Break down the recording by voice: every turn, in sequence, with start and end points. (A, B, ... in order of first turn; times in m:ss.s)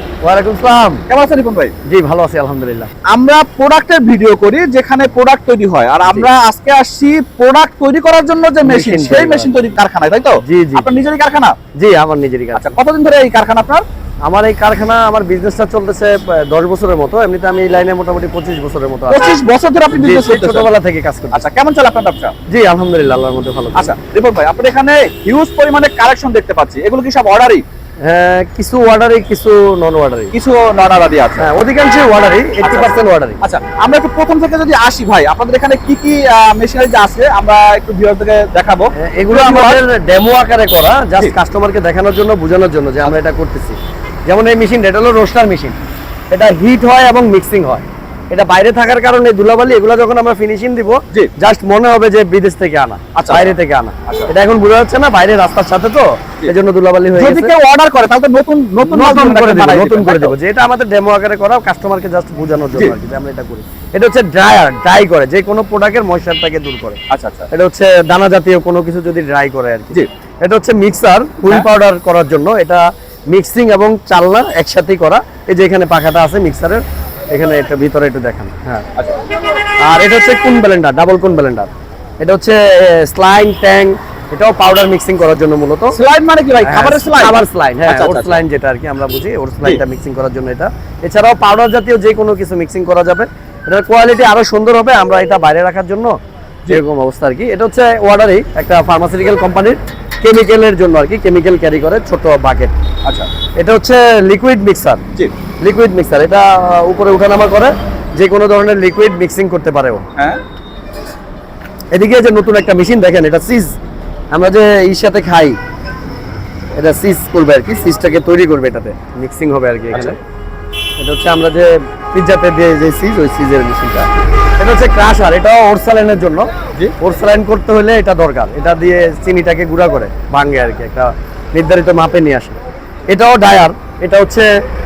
0:00.2-0:01.0 A
0:01.1-0:01.7 B
0:01.9-0:02.9 A
0:03.1-0:11.6 B
0:08.6-0:09.5 A
0:10.4-0:10.9 A
0:11.8-0:12.7 A
0:12.6-0:13.8 B
0:14.3-0:19.3 A
0:19.1-0:20.7 B
0:19.9-0:21.4 A
0:21.3-0:22.4 B
0:22.5-0:23.9 A
0:23.8-0:27.6 B
0:28.0-0:30.3 A
0:30.3-0:31.5 B
0:31.4-0:33.4 A
0:32.6-0:39.8 B
0:39.0-0:45.8 A
0:46.3-0:57.5 A
0:53.2-0:53.5 B
0:57.2-1:00.4 B
0:58.8-1:07.0 A
1:07.1-1:07.5 B
1:07.5-1:18.9 A
1:19.8-1:26.0 A
1:26.0-1:28.4 B
1:26.6-1:36.1 A
1:36.7-1:42.7 A
1:43.6-1:45.0 A
1:45.6-1:50.1 A
1:51.9-1:53.8 A
1:54.3-1:55.6 A
1:56.8-2:00.2 A
2:01.0-2:12.6 A
2:13.1-2:14.5 A